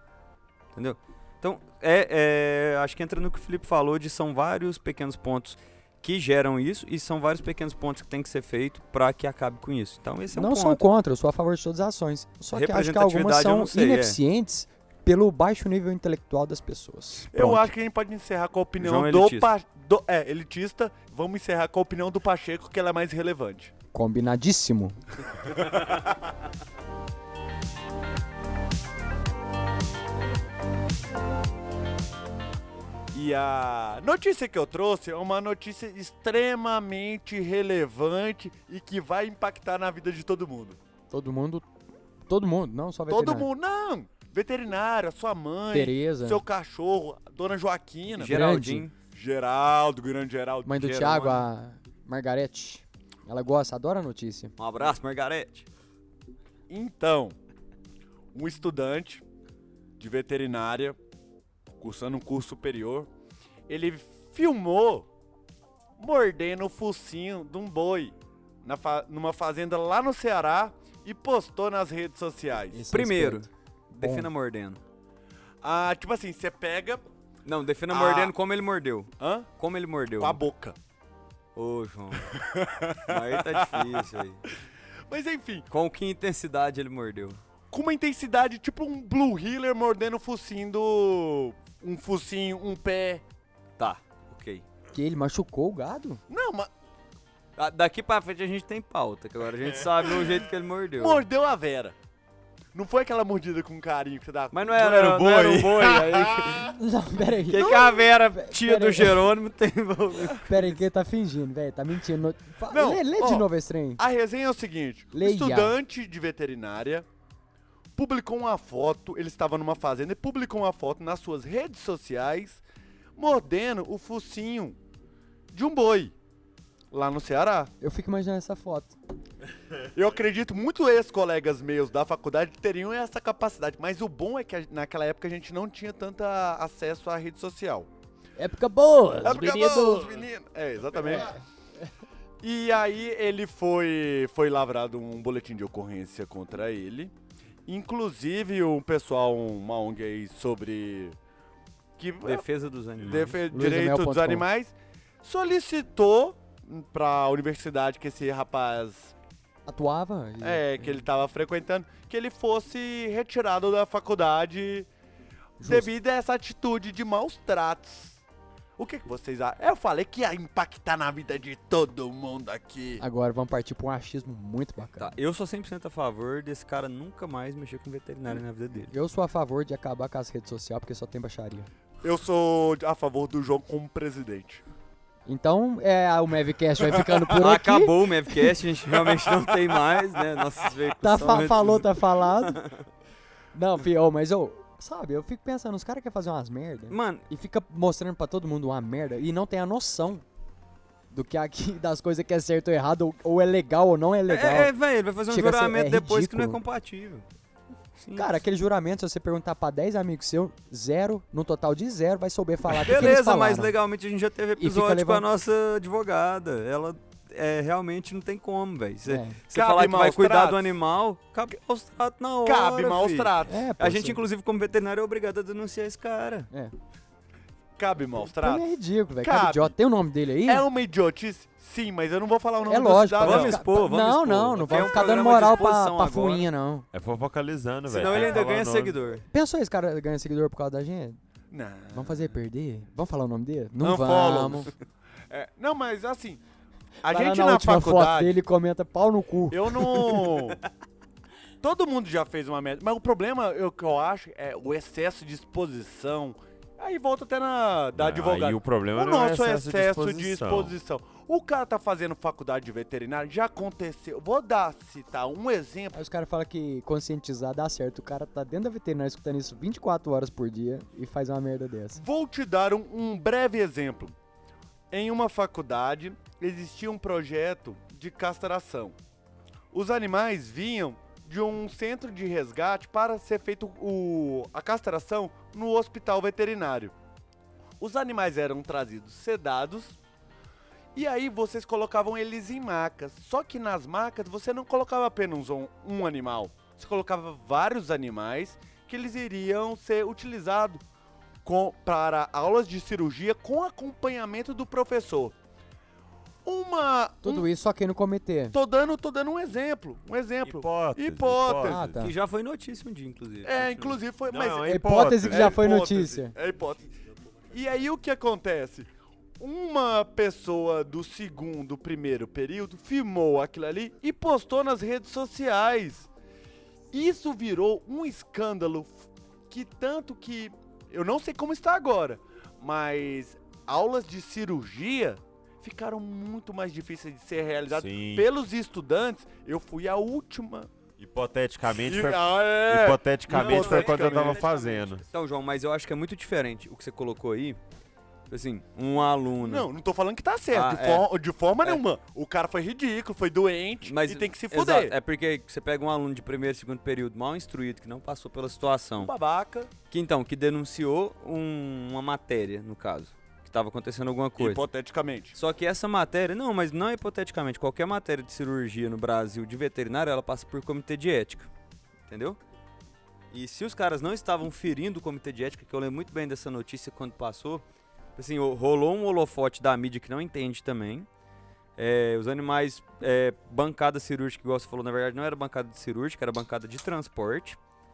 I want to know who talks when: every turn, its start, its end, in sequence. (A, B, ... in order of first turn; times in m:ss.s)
0:00.8-0:10.8 A
0:10.3-0:17.7 B
0:12.5-0:14.2 A
0:17.3-0:23.7 C
0:18.8-0:19.5 A
0:23.9-0:25.0 B
0:25.5-0:26.1 C
0:33.1-0:40.8 C
0:41.1-0:41.7 B
0:42.3-0:43.5 B
0:43.1-0:48.4 C
0:45.7-0:46.4 B
0:48.1-0:49.0 A
0:48.2-0:48.9 B
0:49.1-0:50.7 C
0:50.6-0:54.5 B
0:50.8-0:51.5 A
0:54.6-0:55.7 A
0:56.7-0:57.4 C
0:58.3-0:59.2 C
1:00.0-1:01.0 C
1:01.8-1:03.1 C
1:03.7-1:05.1 C
1:06.0-1:12.8 C
1:12.7-1:13.5 B
1:12.9-1:14.8 A
1:14.0-1:14.3 B
1:15.6-1:17.1 C
1:17.5-1:20.4 A
1:17.9-1:18.3 C
1:19.2-1:19.5 C
1:20.2-1:20.8 C
1:21.6-1:22.3 A
1:22.2-1:24.0 C
1:23.1-1:24.4 A
1:25.1-1:25.7 C
1:25.7-1:27.4 A
1:27.7-1:33.2 C
1:33.8-1:34.6 A
1:34.9-1:36.2 B
1:36.3-1:36.7 C
1:37.6-1:41.2 A
1:41.0-1:42.0 C
1:42.7-1:46.7 C
1:44.5-1:46.7 A
1:46.6-1:47.8 B
1:47.5-1:50.8 A
1:47.6-1:48.0 C
1:48.4-1:49.2 B
1:50.5-1:54.0 B
1:52.7-1:57.1 C
1:55.1-1:55.8 B
1:58.0-2:02.6 C
2:03.2-2:04.8 C
2:05.5-2:06.1 C
2:06.9-2:07.7 C
2:07.8-2:09.0 B
2:10.0-2:17.9 C
2:18.4-2:20.1 B
2:19.2-2:21.4 C
2:21.0-2:21.3 B
2:22.4-2:27.1 C
2:27.7-2:31.2 C
2:32.0-2:32.4 C
2:32.2-2:33.4 A
2:33.0-2:39.1 C
2:33.5-2:34.4 B
2:39.7-2:41.0 B
2:40.4-2:44.9 C
2:45.6-2:45.9 B
2:45.6-2:48.2 C
2:48.8-2:53.0 C
2:53.0-2:55.1 B
2:55.0-2:58.9 A
2:58.9-3:01.7 B
3:02.0-3:04.6 C
3:05.3-3:08.5 B
3:07.3-3:12.8 A
3:11.0-3:12.6 B
3:13.5-3:20.2 B
3:16.9-3:17.2 A
3:21.1-3:24.7 B
3:24.3-3:27.2 A
3:25.3-3:26.6 B
3:28.0-3:28.4 A
3:28.2-3:33.7 B
3:32.8-3:46.5 A
3:34.6-3:35.2 B
3:39.1-3:39.4 B
3:39.5-3:40.8 C
3:42.4-3:43.6 C
3:43.5-3:44.2 B
3:47.8-3:48.6 C
3:48.4-3:50.7 B
3:49.2-3:49.7 C
3:50.5-3:53.6 C
3:52.7-3:56.9 B
3:53.2-3:56.5 A
3:54.6-3:55.5 C
3:56.9-3:59.0 D
3:57.9-3:59.3 A
3:58.0-3:58.4 C
3:59.3-4:01.2 B
4:01.5-4:02.3 C
4:01.9-4:04.7 B
4:03.8-4:04.7 C
4:05.3-4:06.4 C
4:07.0-4:08.4 C
4:07.0-4:10.4 B
4:09.5-4:10.6 C
4:11.6-4:26.0 C
4:18.0-4:20.8 D
4:25.9-4:32.0 B
4:32.0-4:34.2 C
4:34.9-4:39.0 C
4:39.7-4:47.0 C
4:47.8-4:50.0 C
4:51.0-5:00.8 C
5:01.4-5:05.4 C
5:06.4-5:07.5 C
5:07.2-5:08.6 B
5:08.5-5:11.8 C
5:10.5-5:12.0 D
5:11.6-5:12.1 B
5:12.0-5:14.0 A
5:13.4-5:14.7 C
5:14.3-5:15.6 D
5:14.6-5:16.3 B
5:15.2-5:16.9 C
5:17.5-5:18.9 C
5:19.4-5:26.1 C
5:26.9-5:40.7 C
5:37.7-5:38.3 D
5:41.0-5:45.0 D
5:41.6-5:45.0 C
5:43.3-5:44.5 A
5:45.1-5:47.6 A
5:48.3-5:49.7 A
5:49.4-5:54.9 C
5:50.5-5:51.1 A
5:53.8-5:59.1 A
5:59.0-5:59.7 C
5:59.9-6:04.6 A
6:04.4-6:05.4 C
6:05.4-6:11.5 A
6:12.1-6:12.4 A
6:13.3-6:17.6 A
6:18.2-6:21.1 A
6:21.8-6:27.6 A